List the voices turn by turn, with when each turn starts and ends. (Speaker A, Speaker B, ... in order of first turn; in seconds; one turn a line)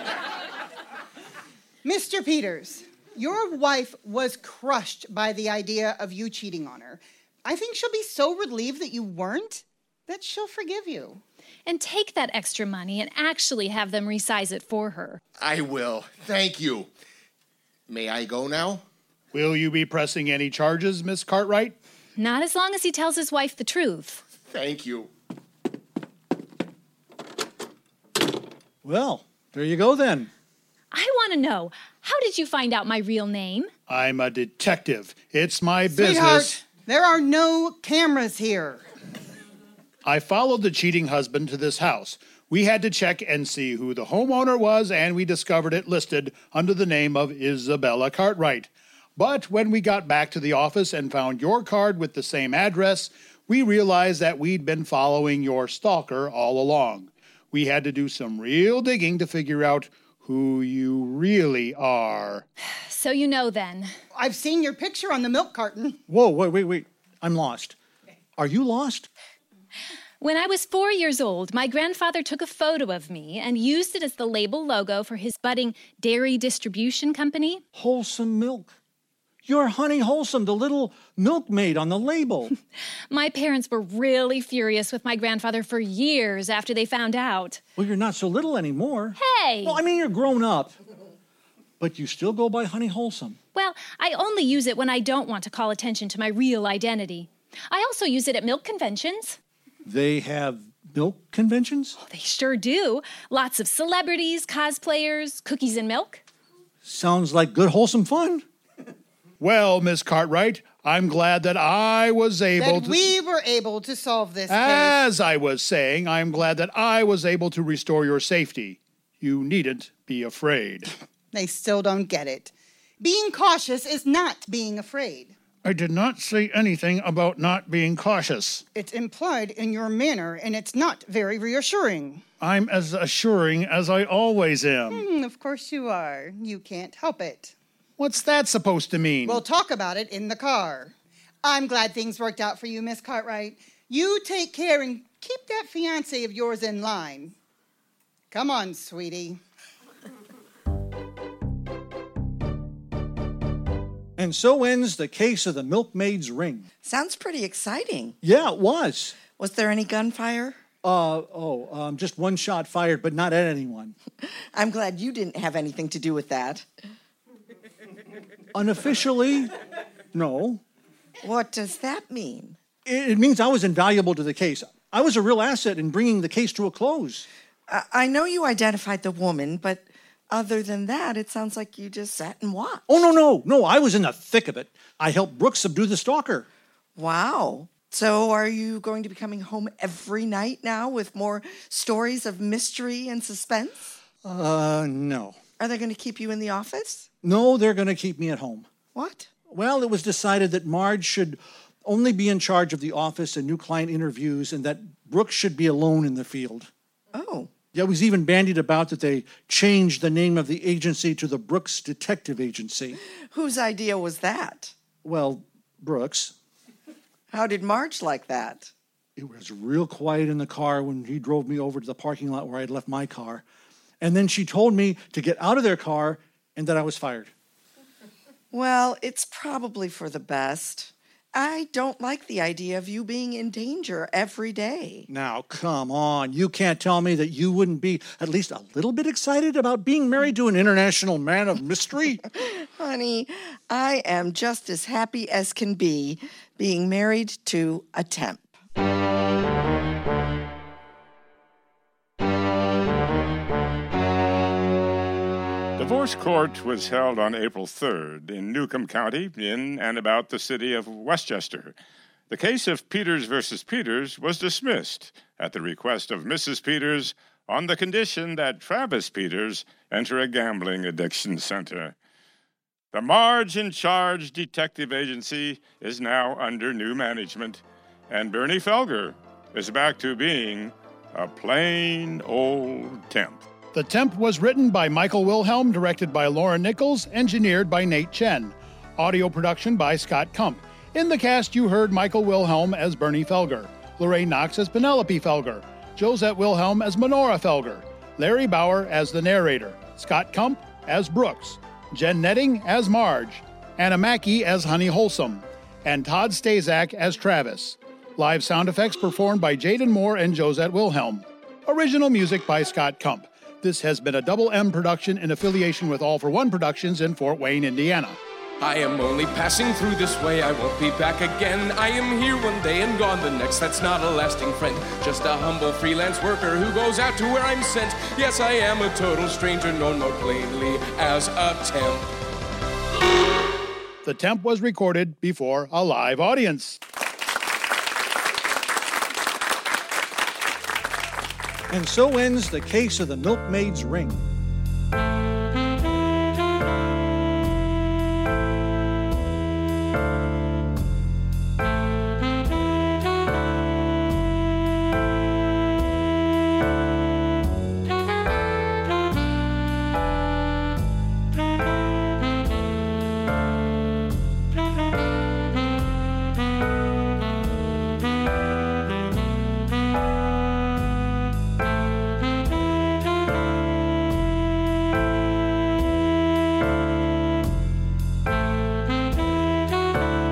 Speaker A: 1.8-11.2
Speaker B: 11.7-15.2
Speaker C: 15.4-16.9
Speaker C: 17.9-18.8
Speaker D: 19.3-21.8
Speaker B: 22.2-24.2
Speaker C: 24.5-25.1
Speaker E: 28.8-30.3
Speaker B: 30.9-33.7
Speaker D: 33.9-36.6
Speaker A: 35.9-38.8
Speaker D: 40.0-62.4
Speaker B: 62.8-63.9
Speaker A: 64.1-66.0
Speaker E: 66.1-67.8
Speaker E: 68.4-69.1
Speaker B: 70.2-77.6
Speaker E: 77.7-78.7
Speaker E: 79.5-82.5
Speaker B: 83.1-87.6
Speaker E: 87.8-90.7
Speaker B: 89.2-89.8
Speaker E: 91.8-93.4
Speaker B: 93.5-99.4
Speaker E: 99.8-102.0
Speaker B: 102.0-106.2
Speaker E: 106.8-108.4
Speaker D: 109.4-113.1
Speaker A: 112.6-114.9
Speaker D: 114.5-120.9
Speaker A: 121.3-125.3
Speaker D: 125.6-128.6
Speaker A: 128.7-132.2
Speaker D: 132.4-135.1
Speaker A: 134.9-137.5
Speaker D: 138.0-139.4
Speaker A: 139.2-147.3
Speaker A: 148.3-149.4
Speaker E: 154.2-156.7
Speaker F: 156.8-158.2
Speaker E: 158.2-159.2
Speaker F: 159.2-160.6
Speaker E: 160.8-163.9
Speaker F: 164.5-166.7
Speaker E: 168.5-169.5
Speaker E: 170.1-170.6
Speaker F: 171.2-172.6
Speaker E: 172.8-177.2
Speaker F: 177.7-183.1
Speaker E: 182.9-186.5
Speaker F: 186.9-193.9
Speaker E: 194.2-195.3
Speaker F: 195.6-197.1
Speaker E: 197.2-198.7
Speaker F: 198.9-199.3
Speaker E: 199.5-206.7
Speaker F: 207.1-207.5
Speaker E: 207.7-213.0
Speaker F: 213.3-214.7
Speaker E: 215.0-216.3
Speaker F: 217.3-218.7
Speaker E: 219.2-223.4
Speaker E: 224.0-227.3
Speaker F: 228.5-235.1
Speaker E: 235.1-242.2
Speaker F: 242.3-248.6
Speaker G: 255.8-261.7
Speaker G: 262.3-272.0
Speaker G: 272.9-283.4
Speaker D: 283.7-318.2
Speaker H: 318.6-332.1
Speaker D: 334.0-336.8
Speaker E: 341.7-344.3